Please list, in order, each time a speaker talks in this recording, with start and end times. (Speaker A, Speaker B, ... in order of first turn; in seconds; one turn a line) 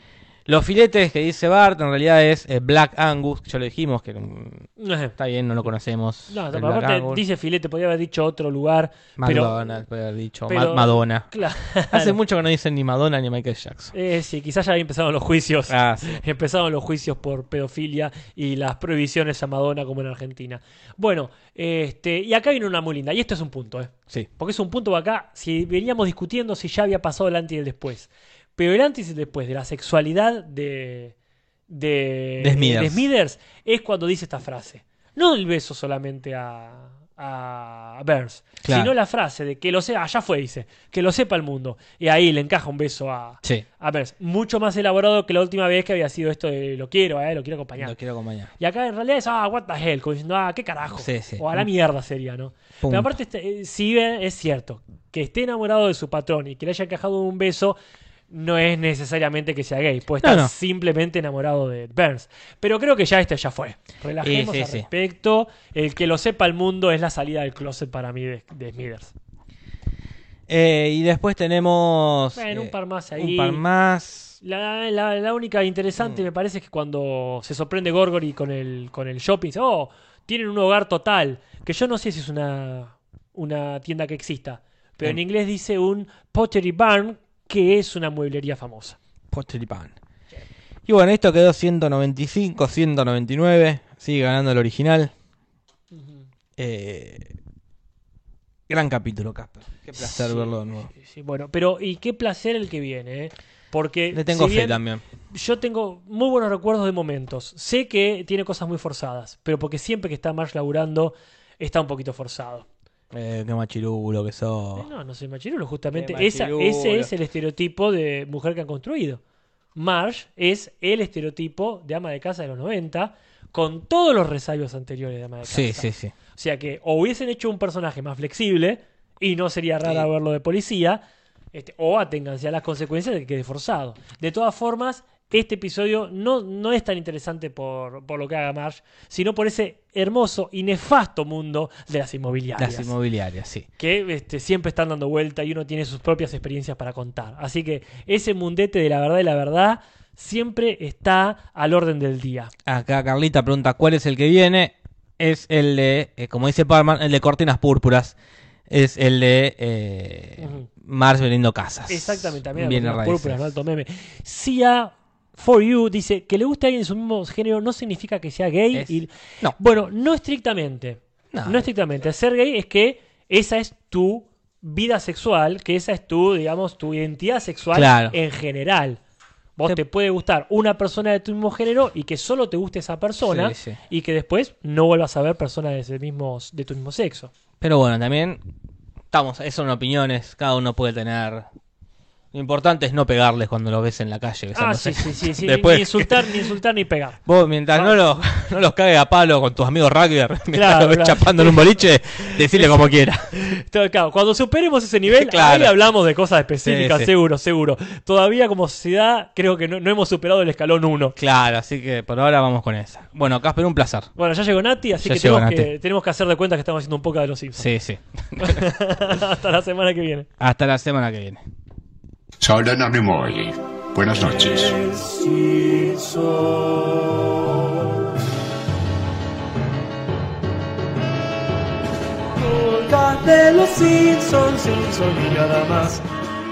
Speaker A: 0.5-7.2
Speaker B: 4.8-5.1
Speaker B: 6.3-9.6
Speaker A: 9.2-11.3
Speaker B: 10.5-12.2
Speaker A: 11.9-13.9
Speaker B: 13.9-31.1
Speaker A: 15.7-16.2
Speaker B: 31.7-48.0
Speaker A: 32.4-33.1
Speaker A: 38.6-38.9
Speaker A: 47.8-48.5
Speaker B: 48.6-57.8
Speaker A: 50.9-51.6
Speaker A: 52.8-53.1
Speaker B: 58.3-69.1
Speaker A: 60.2-60.5
Speaker A: 64.2-64.9
Speaker A: 70.5-74.4
Speaker B: 72.3-73.6
Speaker B: 74.4-89.0
Speaker A: 89.3-89.9
Speaker A: 90.9-95.1
Speaker B: 95.9-96.2
Speaker A: 96.6-97.3
Speaker A: 98.7-100.9
Speaker B: 100.0-112.7
Speaker A: 104.1-105.0
Speaker A: 113.1-114.9
Speaker B: 114.7-119.2
Speaker A: 115.9-117.1
Speaker B: 119.7-131.0
Speaker A: 125.4-126.1
Speaker B: 131.5-142.9
Speaker A: 142.6-143.7
Speaker B: 143.8-152.5
Speaker A: 152.7-158.1
Speaker A: 158.7-163.5
Speaker B: 160.4-160.7
Speaker B: 161.9-179.0
Speaker A: 168.7-169.6
Speaker A: 171.3-171.7
Speaker A: 177.7-178.1
Speaker B: 179.6-187.3
Speaker A: 183.2-183.8
Speaker A: 187.6-188.4
Speaker A: 189.1-191.5
Speaker A: 192.3-196.6
Speaker B: 194.5-197.2
Speaker A: 197.2-203.3
Speaker B: 200.5-202.7
Speaker B: 203.3-211.2
Speaker A: 205.1-205.7
Speaker A: 206.6-207.1
Speaker A: 211.2-214.1
Speaker B: 214.2-217.7
Speaker A: 215.0-215.7
Speaker A: 217.6-218.7
Speaker B: 218.4-220.3
Speaker A: 220.4-221.4
Speaker C: 222.4-224.7
Speaker D: 224.1-227.3
Speaker D: 232.4-236.0